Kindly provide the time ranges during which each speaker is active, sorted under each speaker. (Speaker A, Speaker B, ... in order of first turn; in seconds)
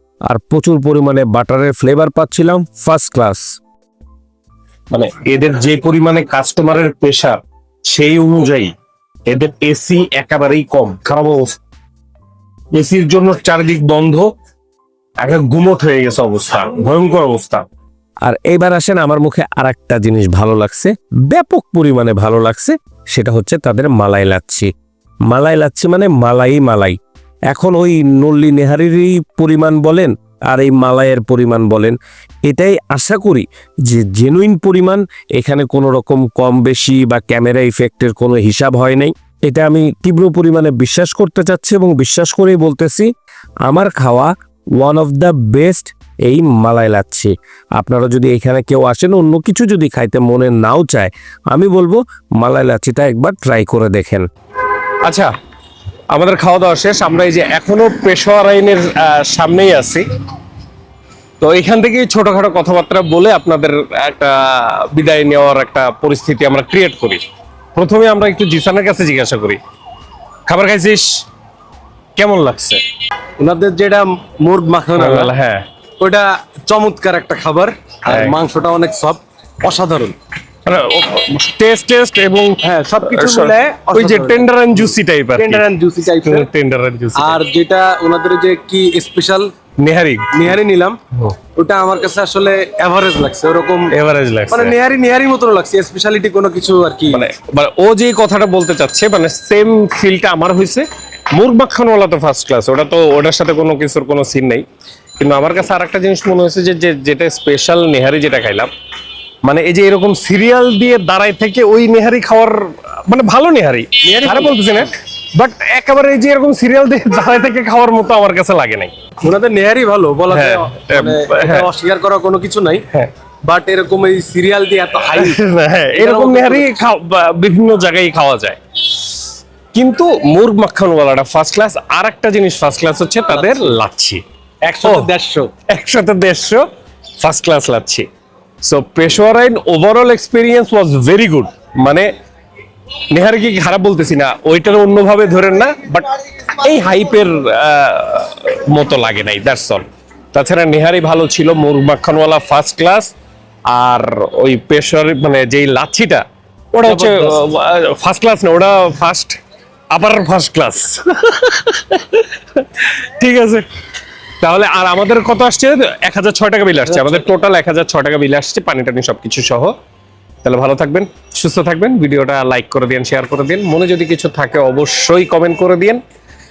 Speaker A: 0.3-3.5, 18.3-24.7, 25.3-27.0, 27.5-32.0, 32.5-43.1, 43.7-54.3
Speaker B: 4.9-8.7, 9.3-11.6, 12.8-14.3, 15.2-17.6, 55.0-55.3, 56.1-60.1, 61.4-67.2, 67.8-69.6, 70.5-71.1, 72.2-72.8, 75.0-75.6, 78.1-78.4, 80.7-85.7, 86.2-87.4, 89.8-90.5, 93.9-94.8, 97.1-104.6, 105.2-108.7, 109.5-118.9, 120.3-121.7, 125.1-129.0, 129.7-134.2, 134.8-135.1, 135.7-136.7, 137.2-138.1, 138.6-142.1, 143.1-153.1, 153.7-159.4, 159.9-163.7, 164.4-169.7, 170.4-176.0
Speaker C: 73.4-75.3, 76.0-80.2, 82.6-84.5, 85.4-86.5, 87.2-89.5, 90.3-91.0, 91.6-93.9, 94.5-97.2, 114.0-114.6, 119.2-122.8, 123.5-125.4, 126.0-126.7, 134.7-135.5, 156.9-157.4